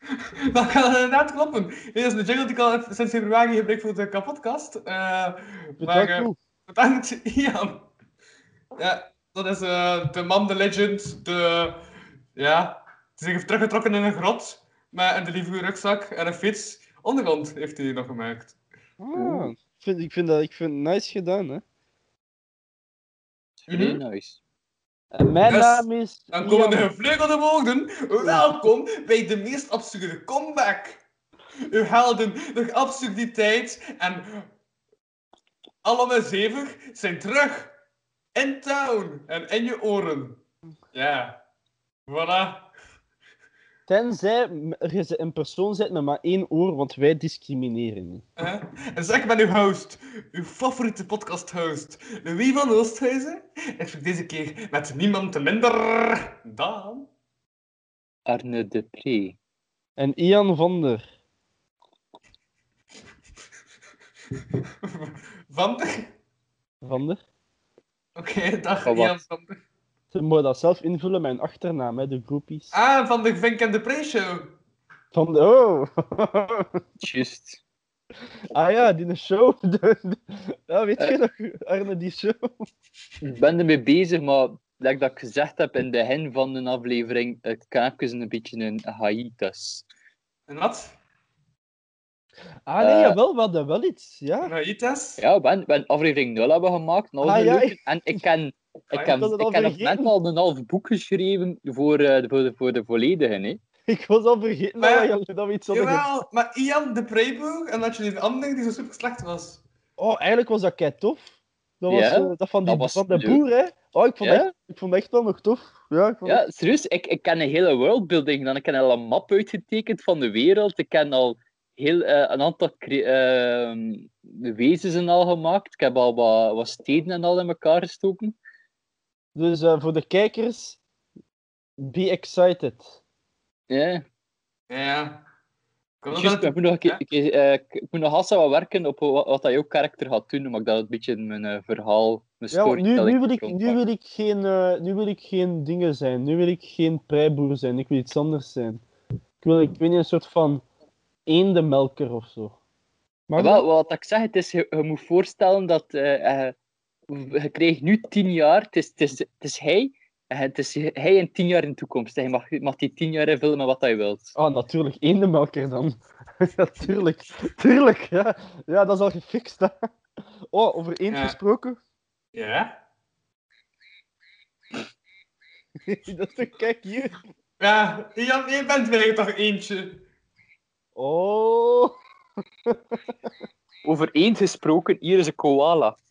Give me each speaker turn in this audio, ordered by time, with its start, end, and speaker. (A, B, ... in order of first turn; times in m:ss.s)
0:00.5-0:07.9 A
0:05.8-0:06.4 B
0:08.8-0:11.8 A
0:12.4-0:18.6 A
0:19.0-0:21.6 B
0:19.1-0:19.5 C
0:23.7-0:24.4 C
0:23.7-0:24.0 A
0:25.1-0:26.9 B
0:25.5-0:31.0 A
0:31.7-0:34.5 A
0:35.8-0:37.7 A
0:38.3-0:40.4 A
0:40.9-0:41.4 A
0:42.1-0:42.7 A
0:43.9-0:48.2 B
0:48.4-0:57.1 A
0:58.3-0:59.4 C
1:00.0-1:01.0 B
1:04.8-1:06.1 A
1:06.8-1:07.2 B
1:08.2-1:09.6 A
1:08.8-1:09.2 C
1:10.1-1:12.7 B
1:12.7-1:14.6 A
1:15.1-1:16.8 B
1:17.0-1:17.6 C
1:18.5-1:22.7 B
1:23.2-1:29.8 C
1:30.5-1:30.9 A
1:32.6-1:34.5 B
1:32.8-1:33.2 C
1:34.4-1:35.2 A
1:35.2-1:43.6 C
1:37.2-1:38.2 B
1:39.1-1:40.1 B
1:43.9-1:46.0 B
1:44.8-1:45.1 A
1:45.7-1:49.6 A
1:50.0-1:56.4 B
1:51.9-1:53.4 C
1:56.2-2:08.4 C
2:09.3-2:10.8 B
2:11.8-2:13.0 B
2:13.7-2:14.0 C
2:14.7-2:15.2 A
2:16.0-2:17.0 A
2:16.1-2:23.8 C
2:22.5-2:28.8 B
2:29.4-2:30.6 B
2:31.2-2:32.6 B
2:33.3-2:33.6 B
2:33.4-2:36.5 C
2:37.1-2:44.3 C
2:44.3-2:49.9 B
2:50.5-2:51.8 B
2:51.1-2:51.4 A
2:52.3-2:52.8 A
2:55.8-2:57.2 B
2:57.6-3:00.0 A
3:01.0-3:02.0 B
3:02.6-3:03.3 B
3:03.8-3:06.0 C